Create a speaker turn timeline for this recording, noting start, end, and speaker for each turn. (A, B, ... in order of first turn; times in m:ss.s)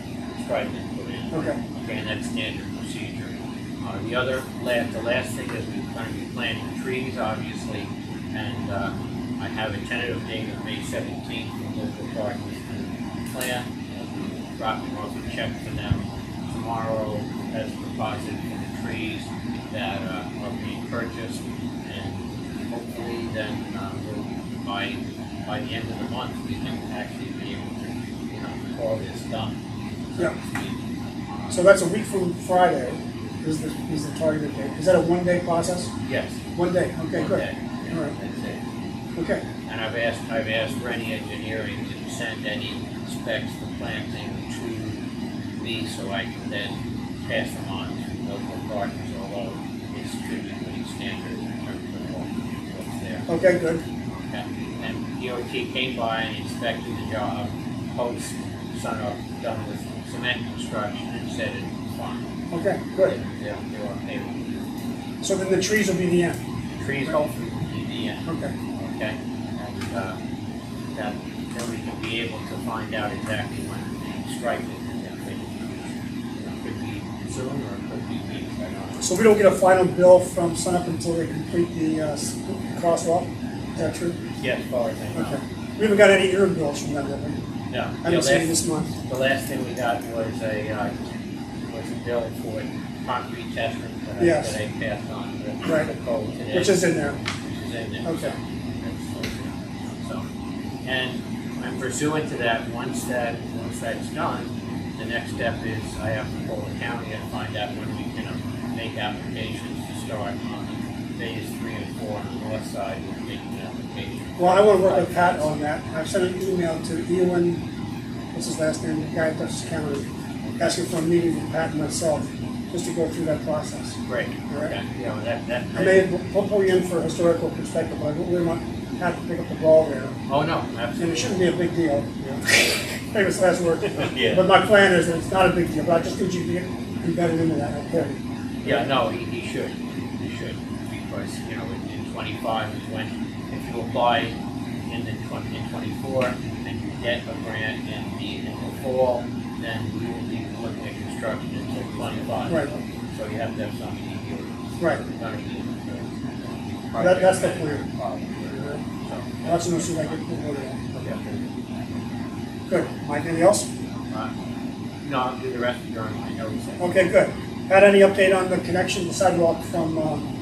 0:00.4-0:29.5 A
0:01.3-0:01.6 B
0:30.1-0:30.8 A
0:31.5-0:35.9 B
0:36.0-0:36.4 A
0:36.6-0:38.1 B
0:37.1-0:38.6 A
0:39.2-0:39.4 B
0:39.7-0:45.0 A
0:45.6-0:53.3 A
0:53.3-0:53.8 B
0:54.1-1:02.2 A
1:02.5-1:03.2 B
1:03.0-1:04.4 A
1:05.2-1:06.4 B
1:06.8-1:10.2 A
1:08.2-1:08.5 B
1:10.9-1:19.0 A
1:19.0-1:24.2 B
1:24.4-1:25.4 A
1:25.1-1:27.4 B
1:27.7-1:30.9 A
1:28.0-1:28.9 B
1:31.7-1:40.2 A
1:34.2-1:34.5 B
1:36.5-1:37.2 B
1:38.0-1:38.3 B
1:40.8-1:55.6 A
1:54.4-1:57.6 B
1:58.3-2:00.1 B
2:00.6-2:04.0 B
2:04.1-2:06.1 A
2:04.5-2:04.7 B
2:05.7-2:10.1 B
2:10.3-2:11.4 A
2:11.0-2:12.4 B
2:13.1-2:18.8 B
2:13.9-2:14.4 A
2:18.6-2:24.3 A
2:24.9-2:40.2 A
2:37.0-2:37.8 B
2:38.5-2:38.8 B
2:39.4-2:40.8 B
2:40.9-2:41.4 A
2:42.7-2:43.7 B
2:45.0-2:46.9 A
2:46.8-2:50.3 B